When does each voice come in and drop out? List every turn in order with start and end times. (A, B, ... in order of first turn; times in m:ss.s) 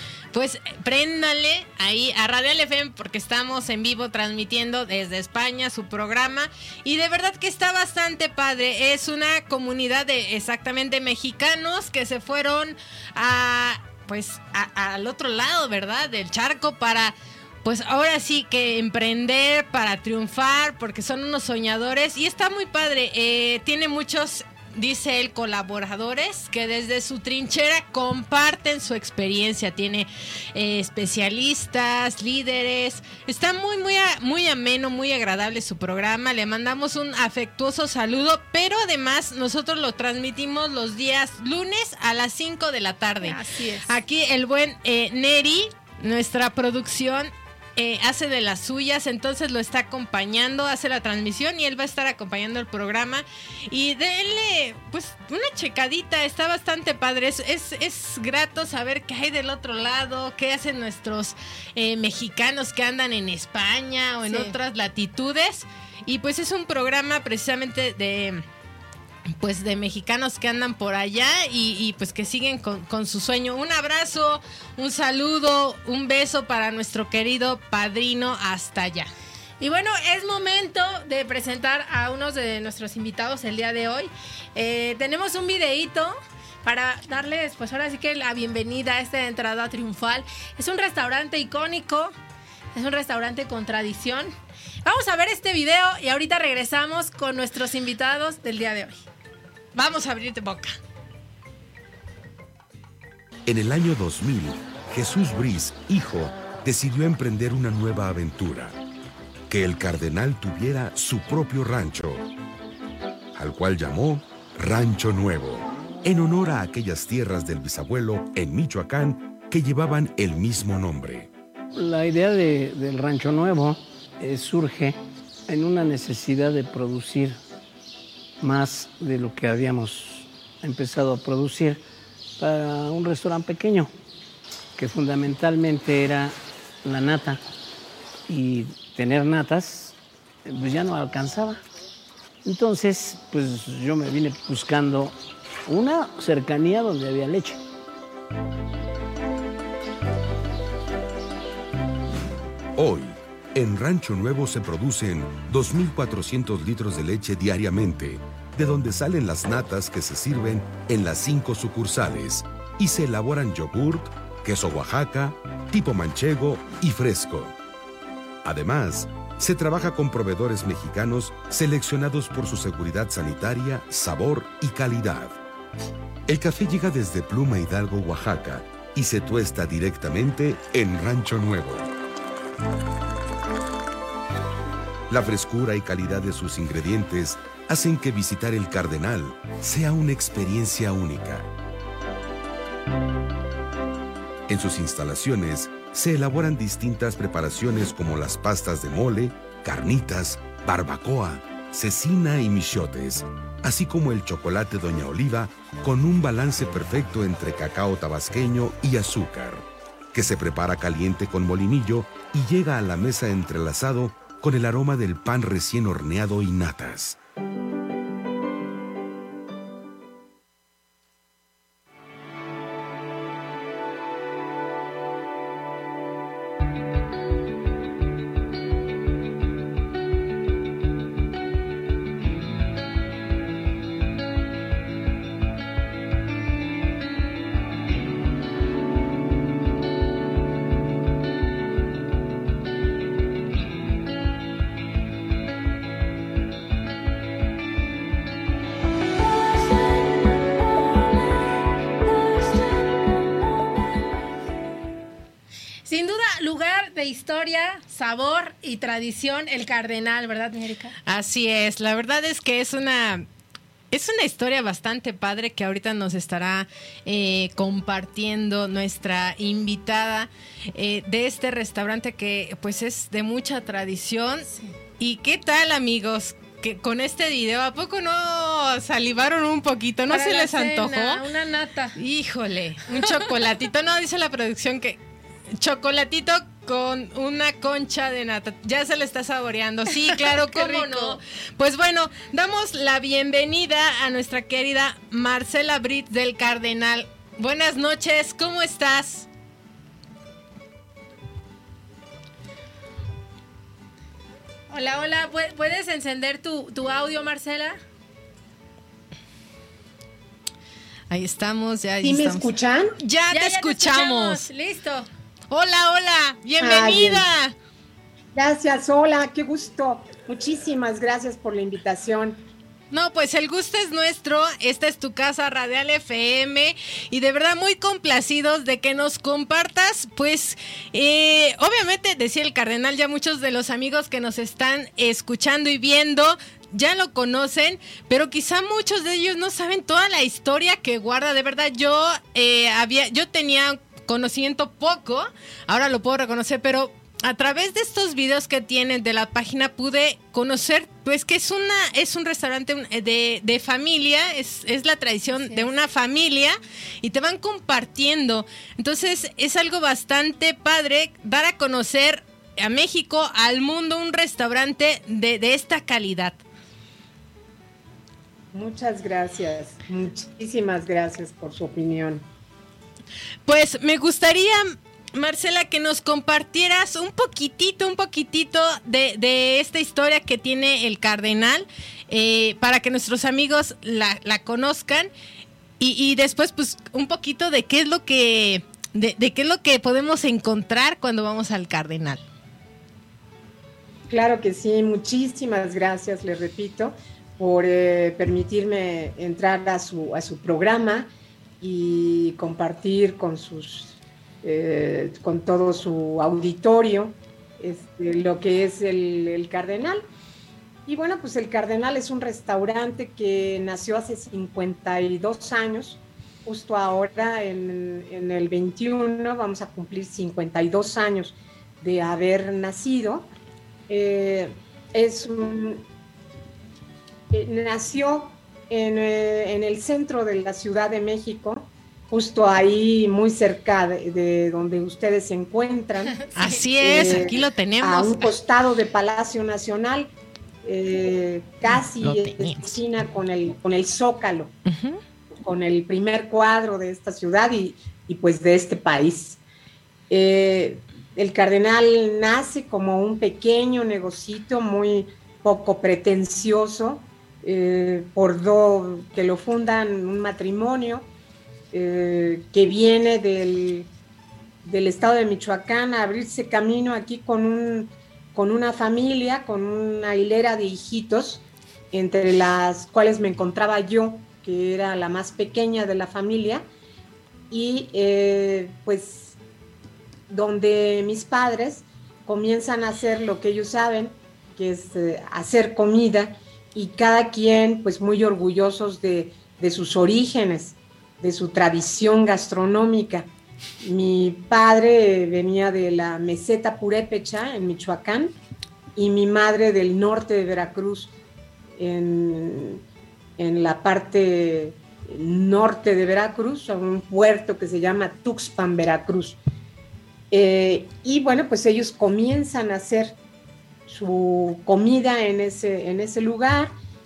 0:00.3-1:08.4 A
0:43.2-0:43.9 B
1:04.3-1:04.5 B
1:09.4-1:19.1 A
1:19.6-1:32.1 B
1:32.7-1:34.3 B
1:34.8-1:39.0 B
1:39.7-1:40.8 A
1:43.4-1:48.8 C
1:49.5-1:52.3 C
1:53.4-2:01.3 C
2:01.7-2:07.4 D
2:08.4-2:11.8 D
2:12.4-2:13.9 D
2:14.8-2:17.4 D
2:18.3-2:21.6 D
2:22.4-2:25.1 D
2:25.6-2:27.6 D
2:32.8-2:47.5 C
2:48.4-2:55.4 C
2:56.3-3:01.9 C
3:05.1-3:11.5 C
3:14.5-3:37.2 C
4:15.8-4:20.9 B
4:21.0-4:23.3 A
4:23.9-4:34.5 A
4:35.0-4:41.2 A
4:40.1-4:42.0 B
4:42.0-4:45.0 A
4:45.6-4:59.3 A
4:49.9-4:51.2 B
5:04.7-5:07.8 B
5:11.1-5:12.5 A
5:12.0-5:12.9 E
5:13.0-5:14.4 A
5:13.3-5:15.1 B
5:15.5-5:17.5 A
5:16.6-5:17.2 E
5:18.3-5:22.4 E
5:22.9-6:06.4 A
6:08.5-6:12.2 E
6:13.4-6:25.1 A
6:25.8-6:32.2 A
6:34.1-6:50.0 E
6:50.8-7:03.3 E
7:03.9-7:05.8 E
7:07.3-7:16.2 E
7:16.3-7:18.3 A
7:16.8-7:20.1 E
7:20.6-7:24.5 E
7:22.0-7:22.7 A
7:24.6-7:25.0 A
7:25.3-7:29.4 E
7:30.1-7:41.1 E
7:41.7-7:43.9 E
7:44.6-7:56.6 E
7:57.5-7:59.4 E
8:00.3-8:13.3 E
8:13.8-8:18.4 E
8:19.0-8:21.1 E
8:21.8-8:22.8 E
8:23.4-8:29.4 E
8:30.3-8:33.2 E
8:33.9-8:36.8 E